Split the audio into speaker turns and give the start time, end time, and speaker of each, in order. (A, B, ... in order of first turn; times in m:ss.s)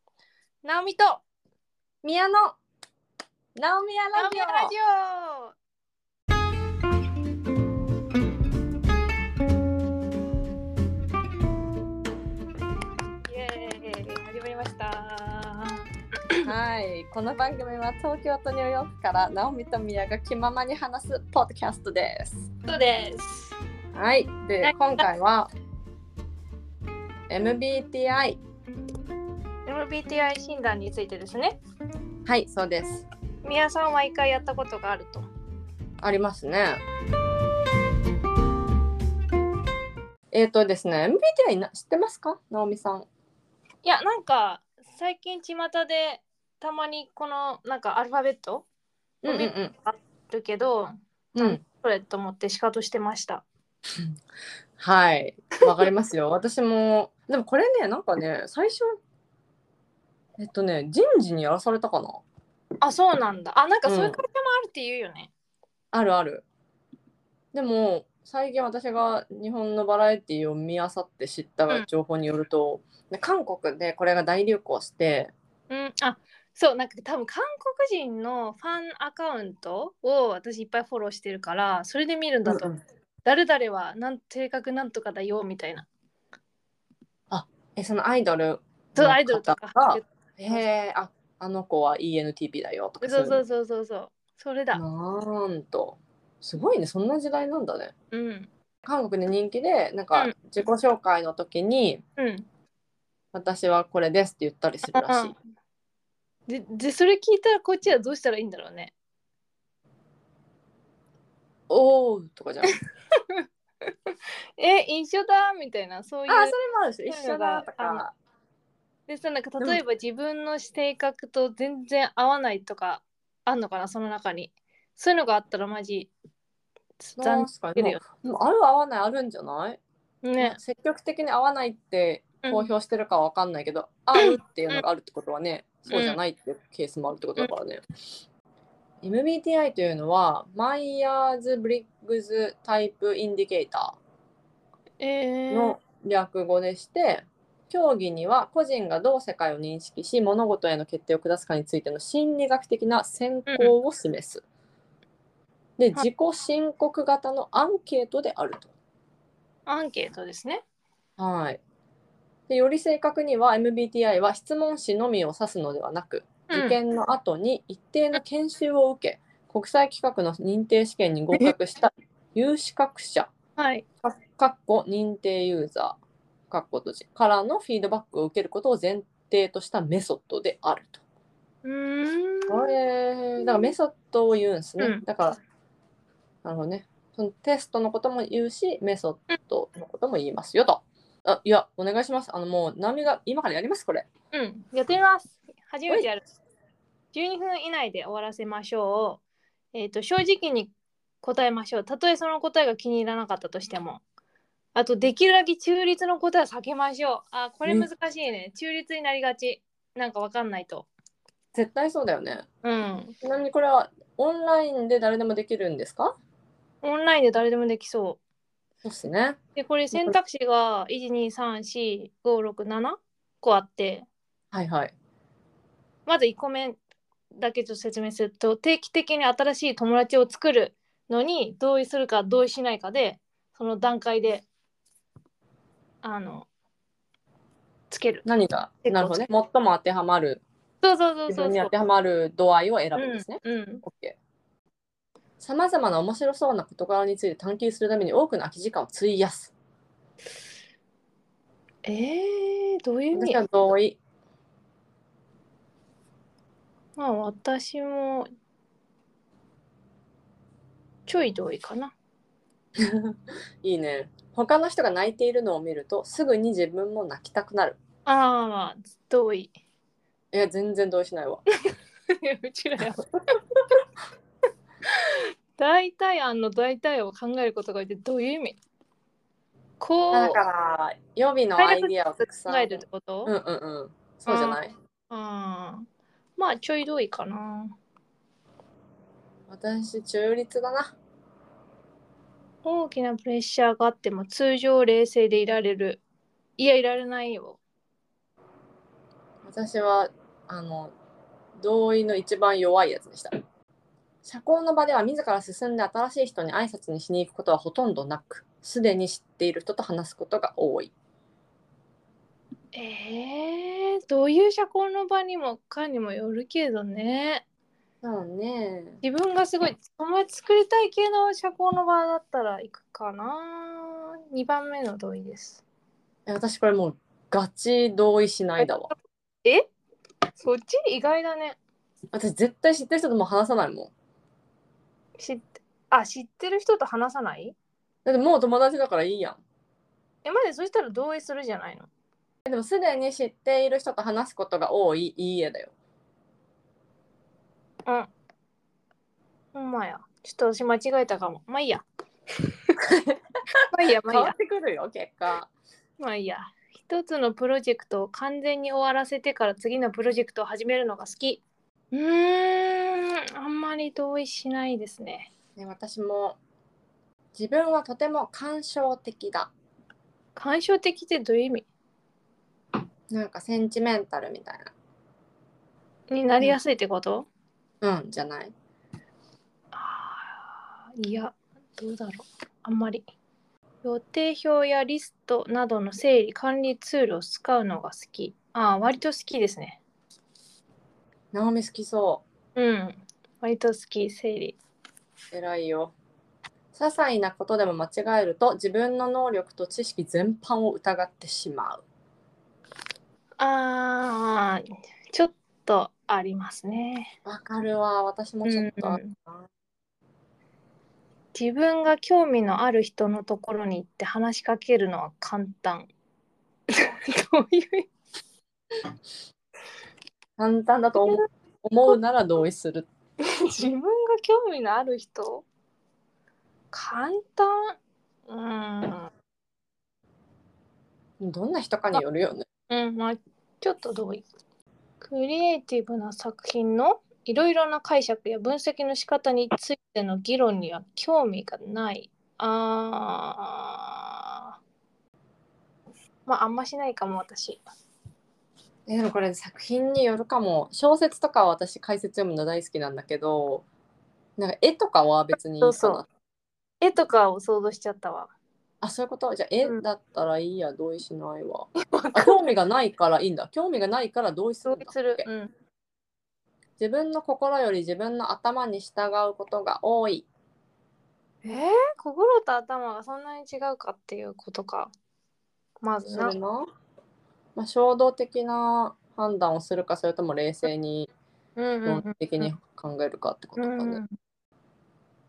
0:00.6-0:01.2 A
0:02.0-0:02.6 B
0:03.6-0:04.7 B
0:04.2-0:05.6 A
0:13.3-0:15.8 A
0:16.4-0:22.5 B
0:22.7-0:23.6 A
0:23.9-0:25.5 B
0:24.6-0:25.0 A
0:27.3-0:28.4 B
0:29.7-0:31.6 A
0:32.3-0:33.0 B
0:33.4-0:35.3 A
0:36.0-0:36.8 B
0:40.3-0:43.1 B
0:43.8-0:48.7 A
0:49.2-0:49.7 B
0:49.3-0:53.4 A
0:51.4-0:51.6 B
0:54.8-0:59.0 B
1:00.4-1:02.2 B
1:02.8-1:05.3 A
1:03.9-1:04.2 B
1:05.9-1:06.4 B
1:07.5-1:15.3 B
1:15.7-1:22.7 A
1:22.5-1:22.8 B
1:23.2-1:25.9 A
1:27.3-1:33.4 B
1:29.0-1:30.7 A
1:33.0-1:34.8 A
1:34.7-1:37.9 B
1:38.1-1:38.5 A
1:38.8-1:42.0 B
1:42.2-1:42.5 A
1:43.3-1:45.3 B
1:44.9-1:45.3 A
1:46.5-1:48.9 A
1:51.7-1:52.8 B
1:54.1-1:56.6 A
1:56.3-1:58.1 B
1:57.1-1:58.0 A
1:59.1-2:06.1 A
2:07.0-2:08.0 A
2:07.2-2:09.8 B
2:10.2-2:10.6 A
2:10.4-2:17.8 B
2:12.4-2:12.7 A
2:14.2-2:14.8 A
2:15.9-2:16.2 A
2:19.0-2:24.0 B
2:25.0-2:25.8 A
2:25.5-2:34.4 B
2:33.5-2:33.8 A
2:35.8-2:38.7 B
2:39.7-2:40.6 A
2:41.2-2:41.6 B
2:42.5-2:53.3 B
2:46.5-2:46.8 A
2:53.6-2:53.8 A
2:54.0-2:56.0 B
2:56.5-3:01.0 B
3:01.6-3:02.8 A
3:02.5-3:05.4 B
3:03.4-3:03.7 A
3:06.4-3:14.1 B
3:14.3-3:16.2 A
3:17.1-3:19.2 A
3:19.7-3:24.0 A
3:24.8-3:30.9 A
3:31.5-3:32.5 B
3:32.6-3:33.1 A
3:33.2-3:36.2 B
3:36.8-3:38.2 A
3:38.8-3:39.4 B
3:39.6-3:44.1 A
3:44.5-3:44.9 B
3:46.1-3:46.8 A
3:47.4-3:54.5 A
3:56.0-3:56.5 A
3:57.9-3:58.3 A
3:58.2-4:00.4 B
3:58.8-3:59.3 A
4:00.8-4:01.7 A
4:01.3-4:04.2 B
4:03.0-4:03.8 A
4:05.4-4:09.5 B
4:11.9-4:13.4 A
4:13.1-4:14.0 B
4:17.0-4:18.3 A
4:21.1-4:21.9 A
4:22.8-4:27.8 B
4:28.1-4:29.5 A
4:30.3-4:31.4 B
4:32.2-4:33.0 A
4:34.9-4:38.6 A
4:39.8-4:40.4 A
4:40.1-4:44.7 B
4:41.6-4:43.3 A
4:44.3-4:47.8 A
4:49.5-4:50.9 B
4:52.6-4:56.0 A
4:56.6-4:57.6 A
4:59.4-5:00.9 B
5:01.6-5:03.3 B
5:04.2-5:10.9 B
5:12.7-5:17.4 A
5:18.0-5:19.0 B
5:19.0-5:25.6 A
5:26.3-5:28.9 B
5:28.6-5:28.9 A
5:30.4-5:31.6 A
5:32.1-5:33.9 B
5:35.2-5:37.6 A
5:38.0-5:39.4 B
5:40.2-5:41.9 A
5:42.5-5:45.7 B
5:49.5-5:51.8 A
5:52.8-5:53.2 B
5:53.7-5:54.3 A
5:54.0-5:55.5 B
5:56.0-6:05.3 A
6:05.6-6:06.4 B
6:07.4-6:09.5 B
6:10.4-6:11.7 A
6:13.1-6:14.7 B
6:16.1-6:17.3 A
6:17.8-6:18.5 B
6:19.7-6:20.4 A
6:21.0-6:23.0 A
6:23.8-6:29.8 A
6:31.3-6:32.2 B
6:32.6-6:34.6 A
6:35.3-6:35.9 B
6:36.7-6:41.8 B
6:43.4-6:47.1 A
6:47.2-6:49.5 B
6:48.4-6:49.2 A
6:51.3-6:55.9 A
6:56.7-6:57.9 A
7:00.4-7:02.9 B
7:03.2-7:05.4 A
7:06.7-7:07.8 A
7:08.3-7:09.1 A
7:11.2-7:12.4 B
7:12.7-7:14.2 A
7:15.0-7:24.6 A
7:26.3-7:27.6 A
7:28.9-7:33.6 B
7:34.4-7:36.1 B
7:35.6-7:36.0 A
7:36.8-7:38.3 A
7:38.8-7:45.3 B
7:41.9-7:42.4 A
7:44.7-7:45.5 A
7:46.8-7:50.3 B
7:51.4-7:54.9 A
7:55.8-7:56.4 A
7:56.1-7:56.7 B
7:57.6-8:01.1 B
8:01.6-8:02.5 A
8:01.8-8:04.0 B
8:03.6-8:04.1 A